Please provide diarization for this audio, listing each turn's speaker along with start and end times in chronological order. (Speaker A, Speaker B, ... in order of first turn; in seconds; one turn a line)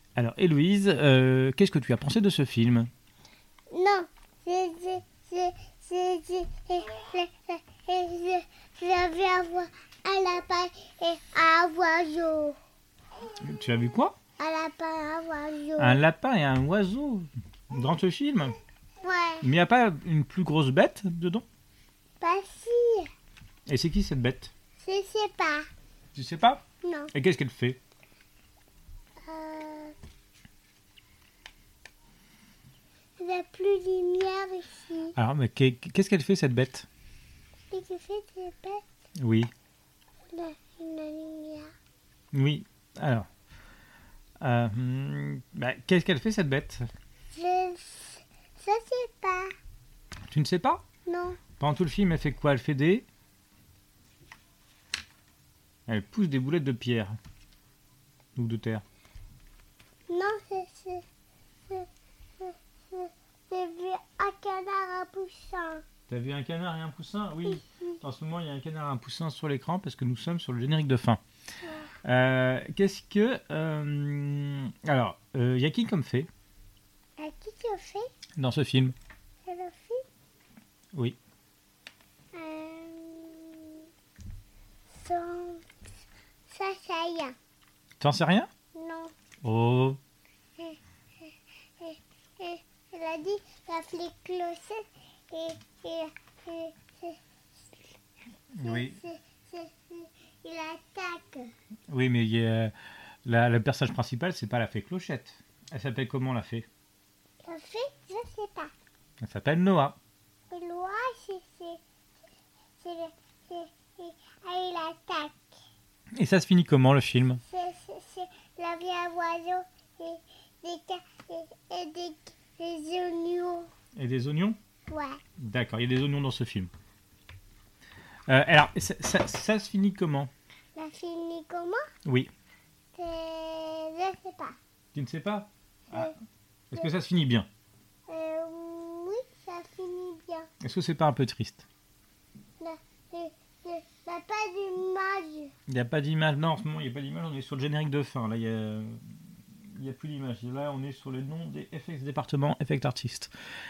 Speaker A: 0.2-2.9
Speaker B: 3.7-12.6
Speaker A: 13.3-14.2
Speaker B: 14.4-16.0
Speaker A: 15.8-18.6
Speaker B: 19.0-19.5
Speaker A: 19.4-21.4
Speaker B: 22.2-23.1
Speaker A: 23.7-24.5
Speaker B: 24.8-25.7
Speaker A: 26.1-26.6
Speaker B: 26.8-27.1
Speaker A: 27.1-27.8
Speaker B: 29.2-30.0
Speaker B: 33.2-35.2
Speaker A: 35.2-36.9
Speaker B: 37.7-38.8
Speaker A: 39.2-39.5
Speaker B: 40.3-41.7
Speaker A: 42.3-43.3
Speaker A: 44.4-46.9
Speaker B: 47.3-49.5
Speaker A: 50.3-50.8
Speaker B: 51.1-51.4
Speaker A: 51.6-53.1
Speaker A: 55.9-57.2
Speaker A: 58.4-58.8
Speaker B: 60.1-61.0
Speaker B: 61.7-65.8
Speaker A: 66.1-71.2
Speaker B: 71.6-71.9
Speaker A: 72.0-76.3
Speaker B: 77.2-78.1
Speaker A: 78.4-79.0
Speaker B: 79.5-80.0
Speaker B: 82.3-83.9
Speaker B: 84.9-85.7
Speaker B: 86.5-87.3
Speaker A: 88.0-88.5
Speaker B: 88.7-89.1
Speaker A: 89.4-90.0
Speaker B: 90.6-97.8
Speaker A: 98.5-99.0
Speaker B: 98.6-101.5
Speaker A: 101.9-102.7
Speaker A: 103.2-106.7
Speaker B: 107.4-108.7
Speaker A: 109.2-110.0
Speaker B: 110.5-111.8
Speaker B: 112.8-115.5
Speaker A: 116.2-117.4
Speaker B: 117.4-123.7
Speaker A: 124.0-124.6
Speaker B: 124.9-125.2
Speaker A: 125.4-126.7
Speaker A: 128.3-130.3
Speaker B: 130.8-131.8
Speaker A: 132.1-132.3
Speaker B: 132.9-134.6
Speaker A: 134.9-136.1
Speaker B: 135.9-136.2
Speaker A: 136.7-137.5
Speaker B: 138.1-140.5
Speaker A: 140.6-141.7
Speaker B: 142.6-145.5
Speaker A: 145.7-149.0
Speaker A: 149.7-153.3